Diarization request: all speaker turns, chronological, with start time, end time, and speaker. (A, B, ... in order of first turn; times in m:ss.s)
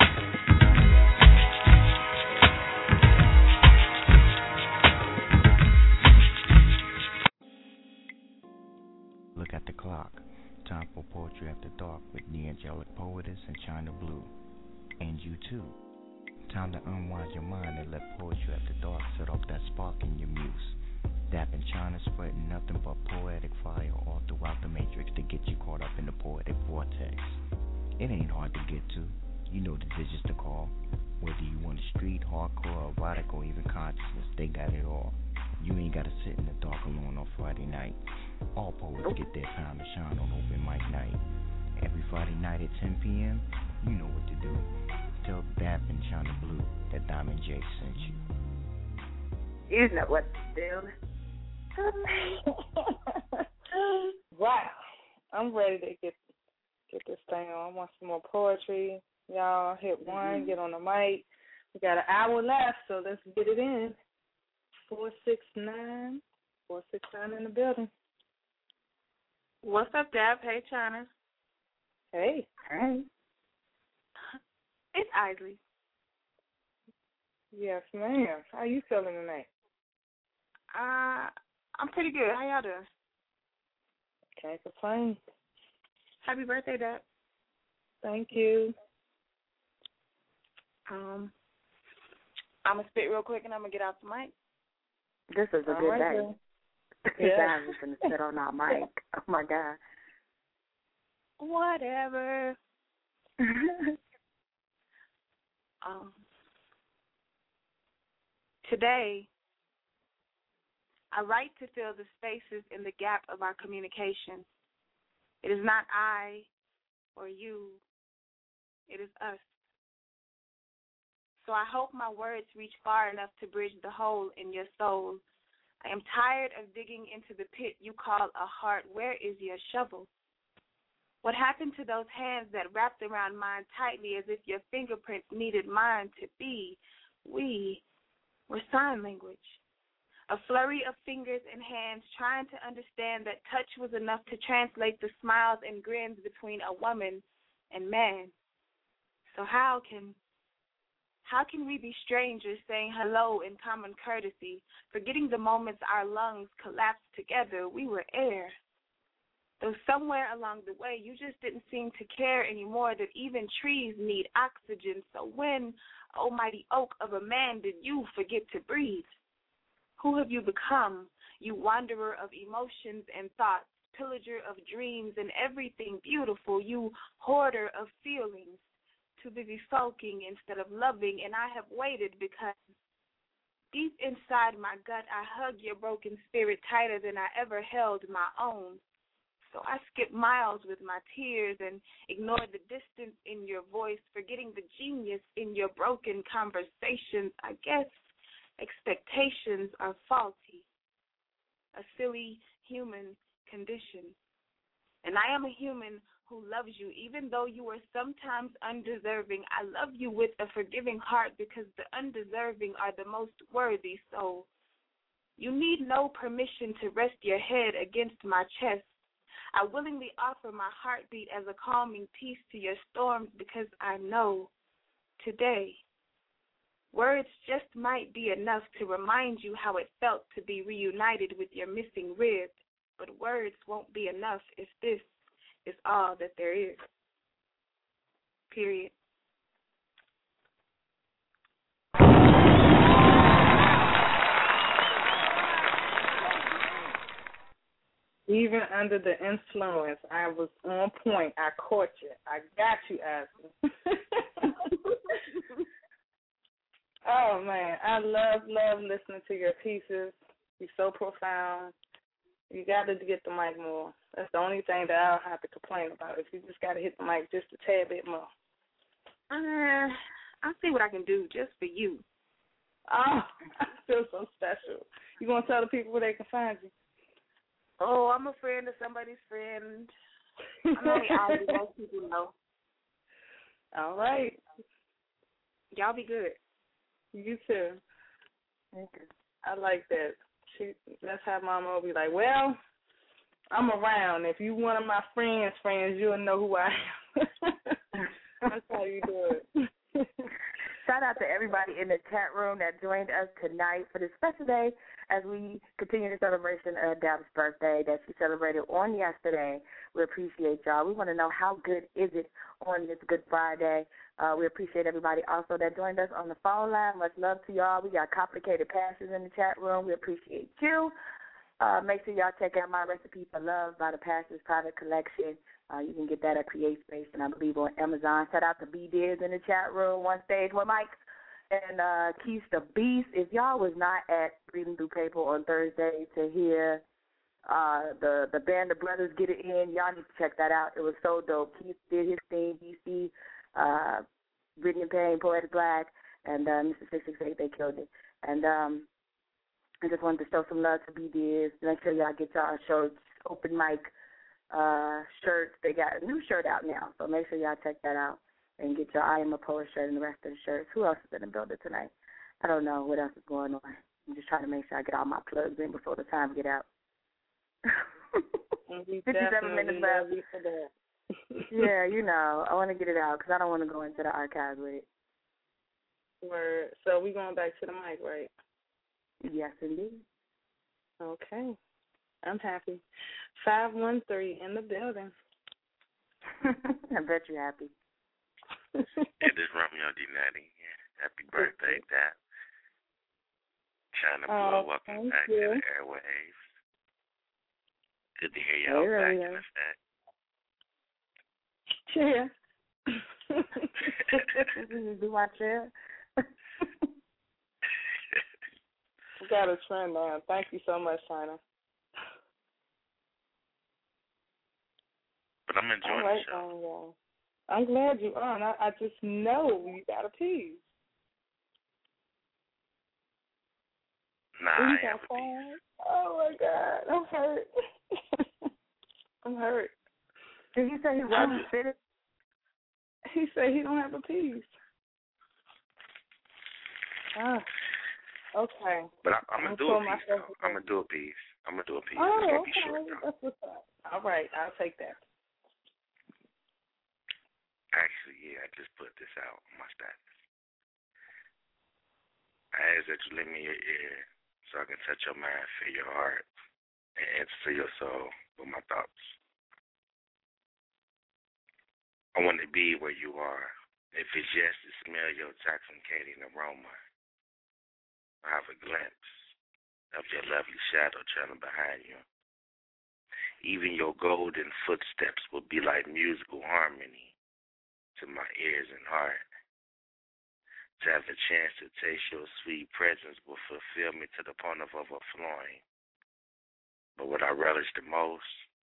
0:09.3-0:14.3 A
0:15.0-0:15.8 A
0:16.5-0:20.8 A
0:21.3-0:27.4 A
0:28.0-0:38.0 A
0:38.5-0:41.2 A
0:41.8-0:48.2 A
0:49.7-0:50.9 B
0:54.3-0:54.7 C
0:55.3-0:56.2 C
0:56.9-1:04.0 C
1:00.1-1:00.5 B
1:04.9-1:07.9 C
1:09.6-1:11.1 D
1:12.1-1:12.5 C
1:12.6-1:13.0 B
1:14.9-1:15.6 D
1:17.5-1:19.5 C
1:20.7-1:22.8 D
1:24.4-1:25.2 C
1:26.2-1:27.0 D
1:28.0-1:28.7 C
1:30.9-1:31.3 D
1:32.6-1:34.3 D
1:35.3-1:36.3 B
1:35.7-1:36.3 C
1:37.1-1:39.8 B
1:37.2-1:37.6 C
1:41.4-1:42.6 D
1:45.8-1:46.1 D
1:48.6-1:49.3 D
1:51.1-1:54.4 D
1:55.4-1:56.5 D
1:57.2-1:57.8 D
1:58.9-1:59.4 D
2:01.4-2:05.2 D
2:05.8-2:10.1 D
2:11.2-2:17.8 D
2:18.5-2:19.6 D
2:20.3-2:28.3 D
2:29.3-2:30.2 D
2:31.2-2:38.5 D
2:39.6-2:49.1 D
2:50.0-2:58.6 D
2:59.2-3:02.6 D
3:03.7-3:08.8 D
3:09.5-3:17.9 D
3:18.6-3:20.6 D
3:21.7-3:24.2 D
3:25.0-3:34.5 D
3:35.4-3:38.9 D
3:39.5-3:44.5 D
3:45.2-3:45.8 D
3:46.9-3:55.0 D
3:55.6-3:56.8 D
3:58.5-3:58.9 D
4:08.3-4:14.7 C
4:17.0-4:21.7 C
4:22.5-4:28.3 C
4:29.3-4:32.0 D
4:32.9-4:36.7 C
4:37.8-4:39.9 D
4:40.8-4:42.3 D
4:40.8-4:41.4 C
4:43.7-4:44.4 C
4:45.7-4:46.4 D
4:47.1-4:47.8 C
4:48.7-4:49.1 B
4:49.4-4:52.6 C
4:53.5-4:57.8 C
4:58.4-4:59.4 C
5:00.8-5:20.9 B
5:21.6-5:30.9 B
5:31.5-5:36.8 B
5:37.4-5:44.0 B
5:44.6-5:48.9 B
5:49.8-5:53.9 B
5:54.5-6:06.6 B
6:08.7-6:10.7 C
6:09.0-6:10.1 B
6:11.5-6:14.8 B
6:16.2-6:18.3 C
6:19.2-6:20.0 B
6:21.0-6:21.6 C
6:22.2-6:22.8 C
6:23.4-6:25.1 C
6:26.9-6:27.7 B
6:29.2-6:32.2 E
6:31.3-6:31.7 B
6:33.9-6:36.4 E
6:34.3-6:35.6 C
6:38.2-6:39.8 E
6:38.7-6:39.4 B
6:41.9-6:42.3 C
6:43.3-6:43.6 C
6:44.4-6:45.7 B
6:49.2-6:51.4 C
6:55.5-6:56.5 E
6:55.8-6:56.9 C
6:57.5-7:00.6 C
7:04.4-7:05.4 E
7:04.6-7:07.4 C
7:09.2-7:09.7 C
7:10.5-7:11.8 B
7:11.1-7:11.4 C
7:13.1-7:14.5 C
7:17.1-7:17.4 C
7:18.3-7:18.9 C
7:19.0-7:23.0 E
7:19.4-7:20.6 C
7:22.0-7:25.0 C
7:27.7-7:30.0 E
7:32.5-7:36.2 E
7:37.0-7:39.2 E
7:42.1-7:46.8 E
7:48.2-7:49.3 E
7:49.9-7:52.0 E
7:53.4-7:57.1 E
7:58.0-7:59.2 E
8:00.8-8:05.6 E
8:07.0-8:08.4 E